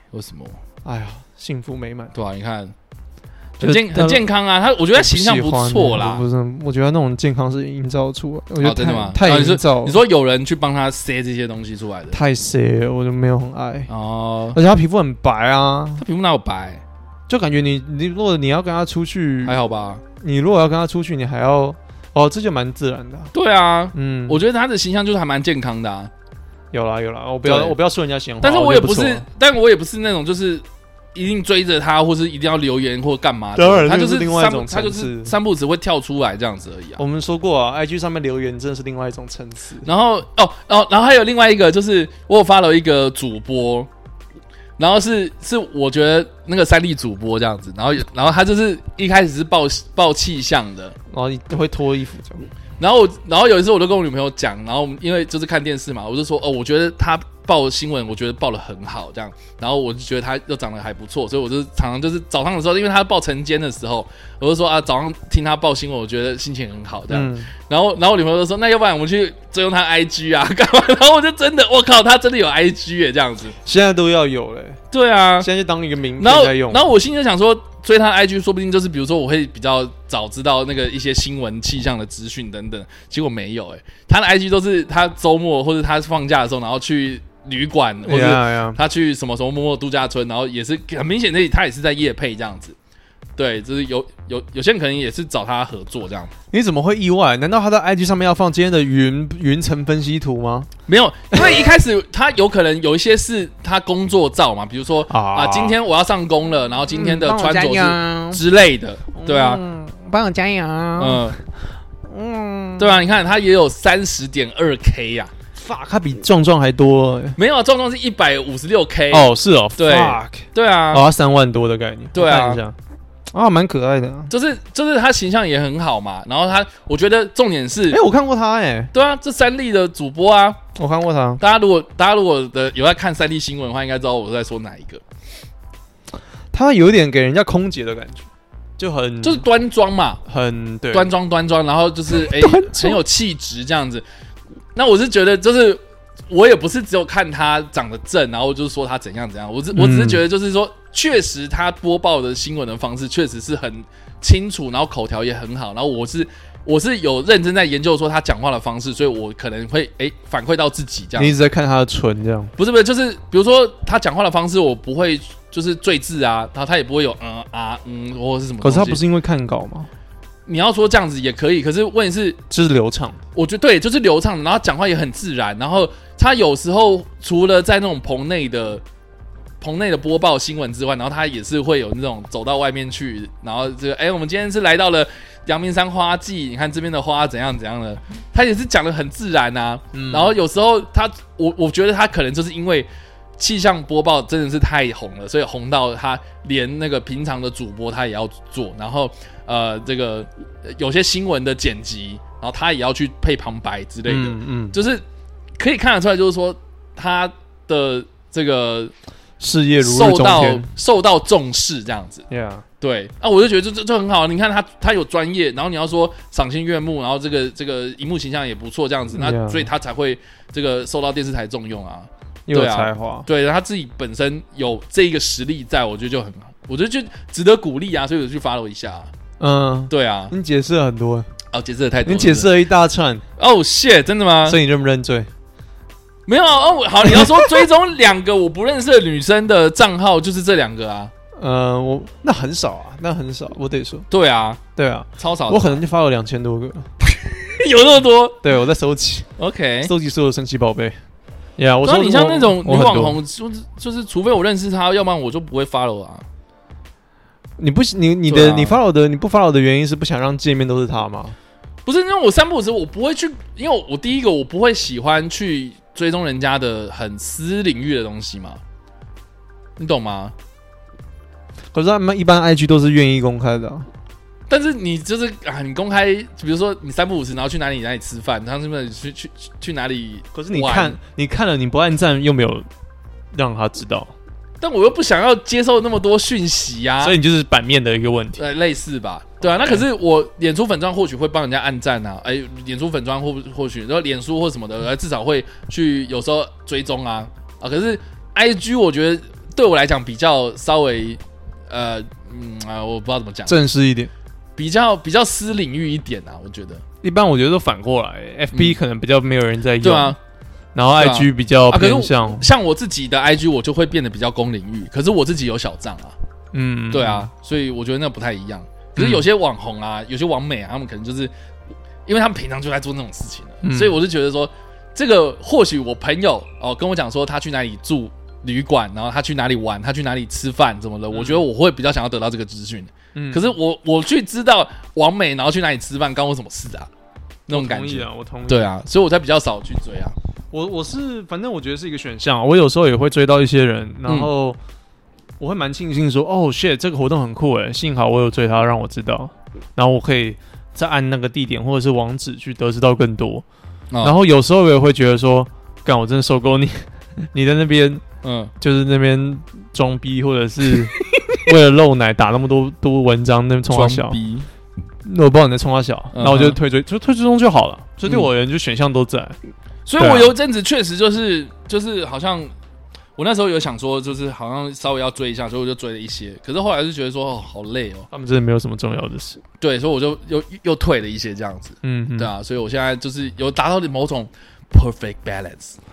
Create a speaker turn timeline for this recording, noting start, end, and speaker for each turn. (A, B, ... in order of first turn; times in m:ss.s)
0:00.1-0:00.6 A
0:00.8-0:02.1 B
0:02.1-0:02.7 A
0:03.6-0:04.2 B
0:03.6-0:06.2 A
0:04.9-0:10.0 B
0:08.6-0:12.2 A
0:12.1-0:13.9 B
0:13.9-0:14.6 A
0:14.5-0:16.0 B
0:16.0-0:16.8 A
0:17.3-0:19.6 B
0:19.4-0:20.0 A
0:20.2-0:23.3 B
0:23.3-0:26.1 A
0:23.9-0:24.4 B
0:26.7-0:29.2 B
0:27.4-0:27.8 A
0:28.4-0:30.6 A
0:31.1-0:37.0 A
0:33.6-0:35.3 B
0:37.0-0:39.9 B
0:39.8-0:43.9 A
0:44.8-0:50.9 A
0:51.1-0:52.5 B
0:52.8-1:13.6 A
1:07.1-1:07.5 B
1:13.6-1:14.8 B
1:14.9-1:15.5 A
1:15.4-1:16.8 B
1:16.2-1:32.8 A
1:28.0-1:28.8 B
1:33.4-1:36.3 A
1:36.5-1:40.7 B
1:40.9-1:49.6 A
1:45.1-1:45.8 B
1:46.9-1:48.4 B
1:49.1-1:51.4 B
1:51.0-1:51.4 A
1:52.0-1:53.0 B
1:52.8-1:55.3 A
1:55.6-1:57.4 B
1:57.4-2:01.0 A
1:59.1-2:02.8 B
2:02.1-2:02.6 A
2:03.3-2:04.3 B
2:04.3-2:08.0 A
2:07.9-2:08.9 B
2:08.9-2:10.6 A
2:10.8-2:11.4 B
2:11.4-2:15.0 A
2:16.5-2:19.4 B
2:19.2-2:20.2 A
2:20.2-2:21.1 B
2:20.9-2:24.0 A
2:22.1-2:23.0 B
2:24.7-2:41.3 A
2:29.7-2:30.2 B
2:41.2-2:42.5 B
2:42.6-2:49.0 A
2:48.6-2:49.9 B
2:50.4-2:52.4 A
2:52.5-2:53.2 B
2:53.3-2:58.8 A
2:59.6-3:25.0 A
3:09.9-3:10.4 B
3:24.1-3:24.8 B
3:25.6-3:28.9 A
3:29.4-3:30.7 B
3:29.8-3:32.2 A
3:32.3-3:32.6 B
3:32.8-3:49.1 A
3:39.1-3:39.7 B
3:42.5-3:43.3 B
3:49.4-3:51.3 B
3:49.9-3:50.3 A
3:51.5-3:52.5 A
3:52.0-3:53.2 B
3:53.4-3:54.6 A
3:54.4-3:55.3 B
3:56.3-4:01.1 A
3:57.0-3:57.7 B
4:01.4-4:04.0 B
4:04.1-4:04.6 A
4:04.8-4:06.9 B
4:05.2-4:05.8 A
4:07.0-4:08.4 A
4:08.4-4:09.3 B
4:09.4-4:09.9 A
4:09.8-4:11.0 B
4:11.6-4:13.2 B
4:11.8-4:16.2 A
4:17.6-4:21.4 B
4:18.3-4:18.8 A
4:21.8-4:28.6 A
4:29.8-4:30.3 A
4:31.7-4:33.9 B
4:34.5-4:41.0 A
4:40.3-4:42.7 B
4:43.3-4:44.1 B
4:44.6-4:47.2 A
4:47.0-4:48.4 B
4:48.4-5:03.6 A
4:49.5-4:49.8 B
5:03.5-5:04.1 B
5:04.6-5:06.8 A
5:07.0-5:10.2 B
5:08.5-5:08.8 A
5:09.8-5:10.2 A
5:10.7-5:12.5 B
5:10.9-5:16.2 A
5:16.5-5:17.3 B
5:16.9-5:21.3 A
5:19.0-5:19.2 B
5:22.0-5:36.9 A
5:23.6-5:24.0 B
5:31.1-5:31.4 B
5:33.1-5:33.5 B
5:37.5-5:40.1 A
5:37.5-5:38.7 B
5:40.5-5:44.6 B
5:45.4-5:53.4 B
5:54.0-5:58.0 B
5:58.2-5:58.5 A
5:58.6-6:04.2 B
6:03.7-6:04.5 A
6:05.0-6:09.4 B
6:06.1-6:06.6 A
6:09.8-6:12.5 A
6:10.0-6:10.3 B
6:13.2-6:18.1 A
6:18.1-6:19.4 B
6:19.6-6:25.8 A
6:21.8-6:22.3 B